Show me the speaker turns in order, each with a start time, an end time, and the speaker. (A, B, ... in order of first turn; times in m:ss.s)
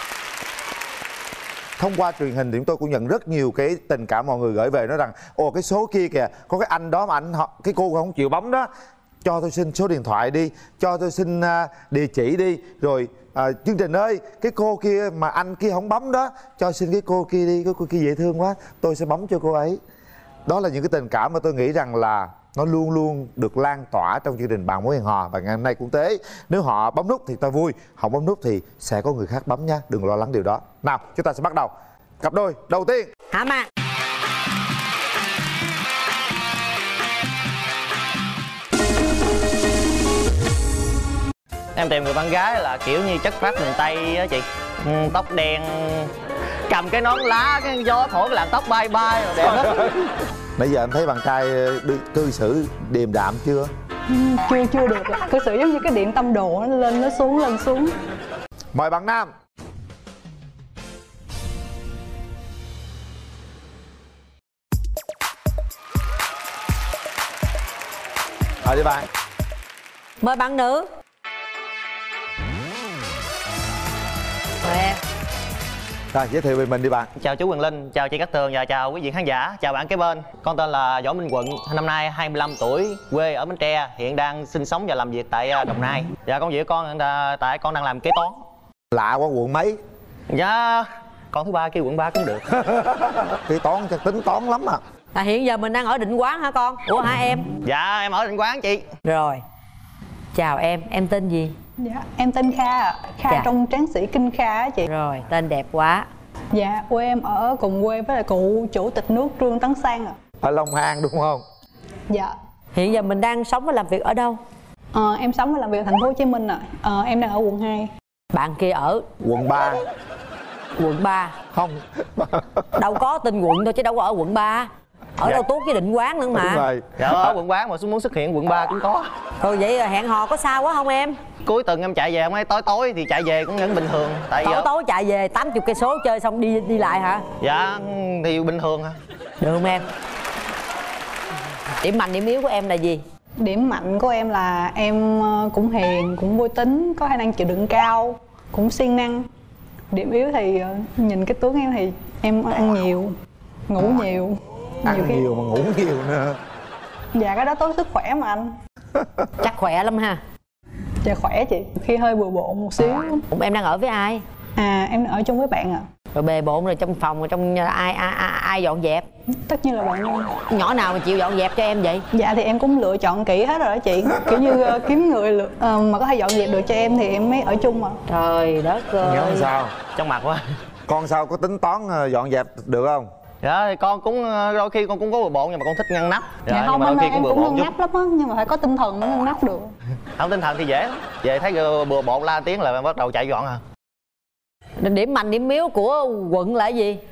0:01.8-0:08.7 A
0:09.2-0:19.8 A
0:20.4-0:33.1 A
0:33.3-0:33.7 B
0:41.8-0:46.1 C
0:46.7-0:50.0 C
0:49.6-0:49.9 A
0:50.6-0:53.7 A
0:54.1-0:57.9 D
0:58.7-0:59.3 A
1:08.6-1:09.1 A
1:10.2-1:10.9 B
1:14.6-1:15.0 B
1:16.1-1:17.1 A
1:17.2-1:28.4 C
1:28.9-1:29.8 A
1:30.3-1:32.4 C
1:32.6-1:34.8 A
1:35.1-1:37.5 B
1:37.6-1:38.9 C
1:39.0-1:39.4 B
1:40.3-1:41.5 B
1:41.8-1:44.9 D
1:44.8-1:46.1 B
1:46.5-1:50.2 D
1:50.4-1:51.4 A
1:52.8-1:54.4 B
1:54.9-1:57.9 D
1:58.3-1:59.1 B
1:59.2-1:59.8 A
2:00.8-2:01.3 B
2:01.5-2:02.9 A
2:02.8-2:06.6 B
2:06.3-2:07.4 A
2:07.0-2:09.1 C
2:09.4-2:11.2 B
2:11.4-2:14.7 C
2:14.4-2:17.2 B
2:17.4-2:19.0 C
2:19.4-2:19.8 B
2:21.8-2:23.0 B
2:23.4-2:29.3 D
2:29.9-2:33.1 D
2:33.7-2:35.2 D
2:34.8-2:36.4 A
2:37.1-2:38.6 D
2:39.0-2:39.3 A
2:39.4-2:40.2 B
2:41.0-2:43.2 D
2:43.3-2:44.2 B
2:44.6-2:45.8 D
2:46.1-2:49.0 B
2:49.4-2:50.3 D
2:50.5-2:52.0 B
2:52.1-2:58.0 D
2:58.1-2:59.5 B
2:59.0-2:59.8 A
2:59.9-3:00.4 C
3:00.9-3:03.1 A
3:03.4-3:07.7 C
3:06.5-3:09.7 D
3:10.2-3:13.6 C
3:14.8-3:17.0 B